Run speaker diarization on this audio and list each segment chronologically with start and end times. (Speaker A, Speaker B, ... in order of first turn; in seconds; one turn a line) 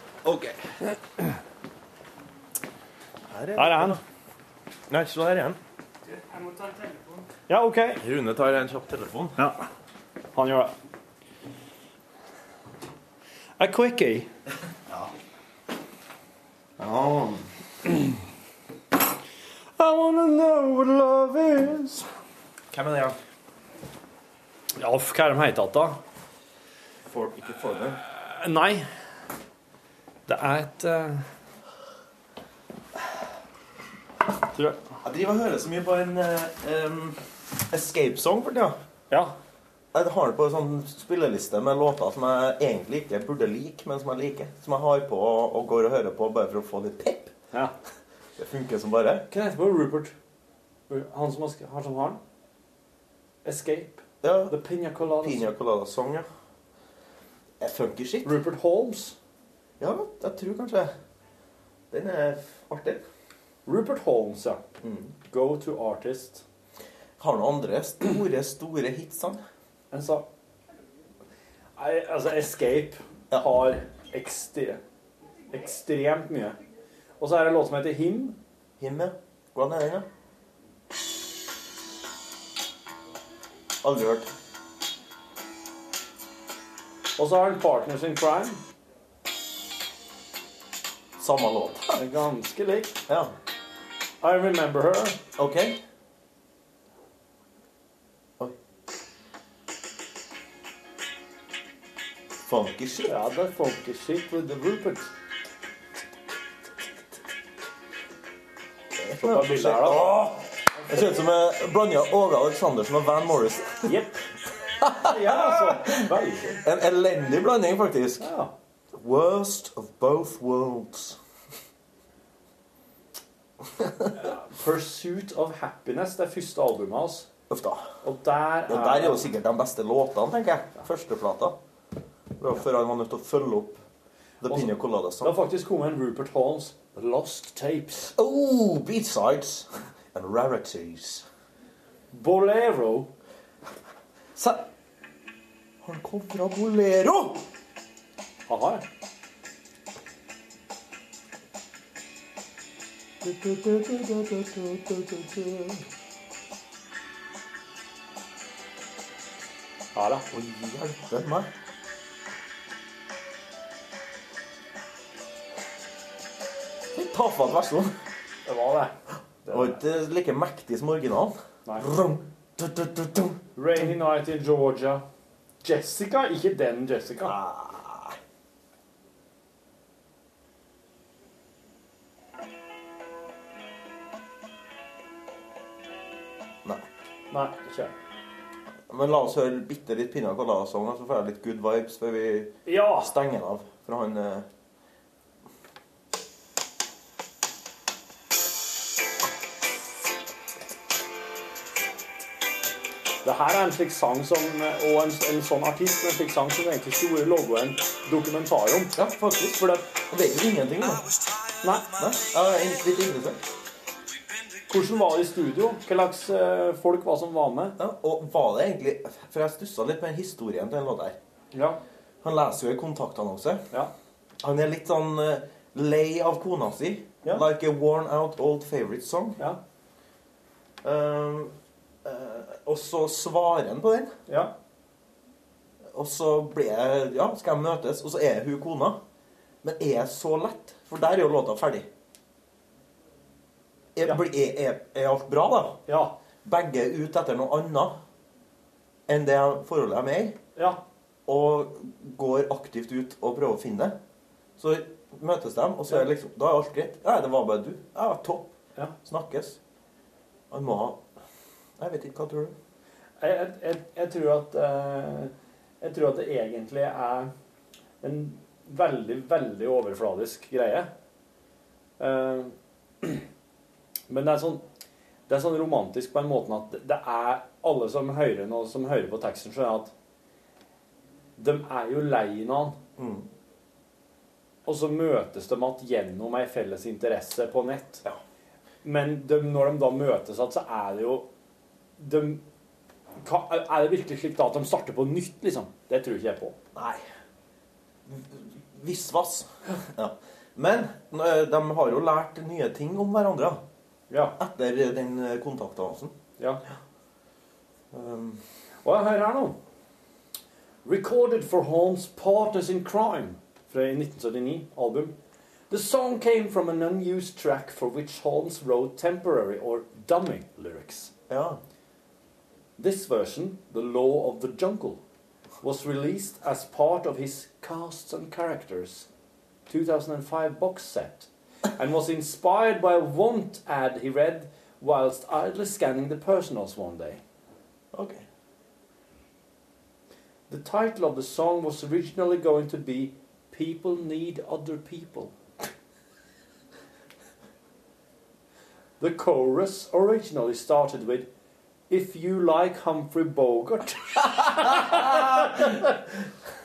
Speaker A: 0.2-0.6
Speaker A: 3.3-4.0
Speaker B: 3.5-4.0
Speaker A: 4.9-5.6
Speaker B: 7.5-8.0
Speaker A: 8.0-9.4
Speaker B: 9.4-9.7
Speaker B: 10.3-10.7
Speaker B: 13.6-14.3
Speaker A: 16.8-17.5
Speaker B: 19.8-22.1
Speaker A: 22.7-23.2
Speaker B: 24.8-26.0
Speaker A: 27.1-28.0
Speaker B: 28.1-28.9
Speaker B: 30.3-31.2
Speaker B: 34.5-34.8
Speaker A: 35.0-38.8
Speaker B: 39.1-39.4
Speaker A: 39.9-47.3
Speaker A: 48.4-49.3
Speaker B: 49.3-50.1
Speaker B: 50.9-52.2
Speaker B: 53.4-55.5
Speaker A: 54.2-54.5
Speaker A: 55.2-56.3
Speaker A: 57.6-58.3
Speaker B: 58.2-59.2
Speaker A: 59.8-60.9
Speaker A: 61.9-63.0
Speaker B: 63.6-64.6
Speaker A: 64.8-65.1
Speaker B: 65.2-66.4
Speaker A: 67.2-69.4
Speaker B: 69.9-70.3
Speaker B: 71.8-74.8
Speaker B: 75.5-76.6
Speaker B: 77.2-78.4
Speaker A: 78.8-80.1
Speaker A: 83.8-84.3
Speaker B: 87.2-88.6
Speaker A: 91.2-92.0
Speaker B: 91.9-93.0
Speaker A: 93.1-93.3
Speaker B: 94.2-95.2
Speaker A: 95.4-95.8
Speaker A: 102.4-103.1
Speaker B: 103.1-105.1
Speaker A: 109.0-113.9
Speaker B: 109.2-110.2
Speaker B: 113.8-114.2
Speaker A: 114.8-118.3
Speaker B: 115.0-116.6
Speaker B: 118.2-118.5
Speaker A: 118.9-121.2
Speaker A: 123.8-124.2
Speaker B: 124.2-127.3
Speaker A: 127.5-127.9
Speaker B: 128.0-129.3
Speaker A: 128.7-131.6
Speaker A: 132.4-133.8
Speaker A: 134.4-135.3
Speaker B: 134.4-138.1
Speaker A: 138.1-141.2
Speaker B: 142.1-143.1
Speaker A: 144.3-144.7
Speaker A: 145.8-147.4
Speaker B: 148.5-148.8
Speaker A: 153.2-155.8
Speaker B: 159.9-160.3
Speaker A: 160.3-161.5
Speaker A: 166.9-167.9
Speaker B: 168.4-169.8
Speaker A: 169.5-173.4
Speaker B: 171.7-171.9
Speaker B: 173.6-175.0
Speaker B: 175.6-177.3
Speaker A: 177.2-178.2
Speaker B: 187.3-187.9
Speaker A: 188.9-194.5
Speaker B: 192.7-193.1
Speaker B: 203.2-208.9
Speaker A: 208.9-211.2
Speaker B: 211.6-212.0
Speaker A: 212.0-213.4
Speaker B: 214.7-217.8
Speaker A: 217.8-221.2
Speaker B: 221.5-221.8
Speaker A: 222.2-223.7
Speaker A: 224.4-229.4
Speaker A: 230.8-231.5
Speaker A: 232.0-234.1
Speaker B: 234.3-234.5
Speaker A: 235.9-239.0
Speaker A: 239.6-241.9
Speaker A: 243.9-245.8
Speaker B: 245.9-246.2
Speaker A: 246.4-247.9
Speaker A: 249.1-250.4
Speaker B: 250.6-250.8
Speaker A: 251.3-253.9
Speaker A: 254.6-259.6
Speaker A: 260.5-261.0
Speaker A: 261.8-262.5
Speaker B: 263.2-267.3
Speaker B: 268.0-270.9
Speaker B: 272.0-273.2
Speaker B: 274.1-274.6
Speaker B: 275.3-279.9
Speaker B: 281.4-282.8
Speaker A: 283.0-283.3
Speaker B: 284.6-288.0
Speaker B: 288.8-291.3
Speaker B: 292.0-292.4
Speaker B: 293.2-296.6
Speaker A: 296.7-297.0
Speaker A: 298.1-303.6
Speaker B: 304.1-304.4
Speaker A: 304.4-306.1
Speaker A: 307.9-308.4
Speaker B: 308.8-309.6
Speaker B: 310.8-315.2
Speaker B: 315.7-321.1
Speaker A: 321.3-321.6
Speaker B: 322.8-325.0
Speaker B: 325.6-329.1
Speaker B: 329.7-337.2
Speaker A: 337.9-338.2
Speaker B: 340.5-345.3
Speaker B: 349.0-351.3
Speaker B: 351.9-355.8
Speaker A: 354.5-355.9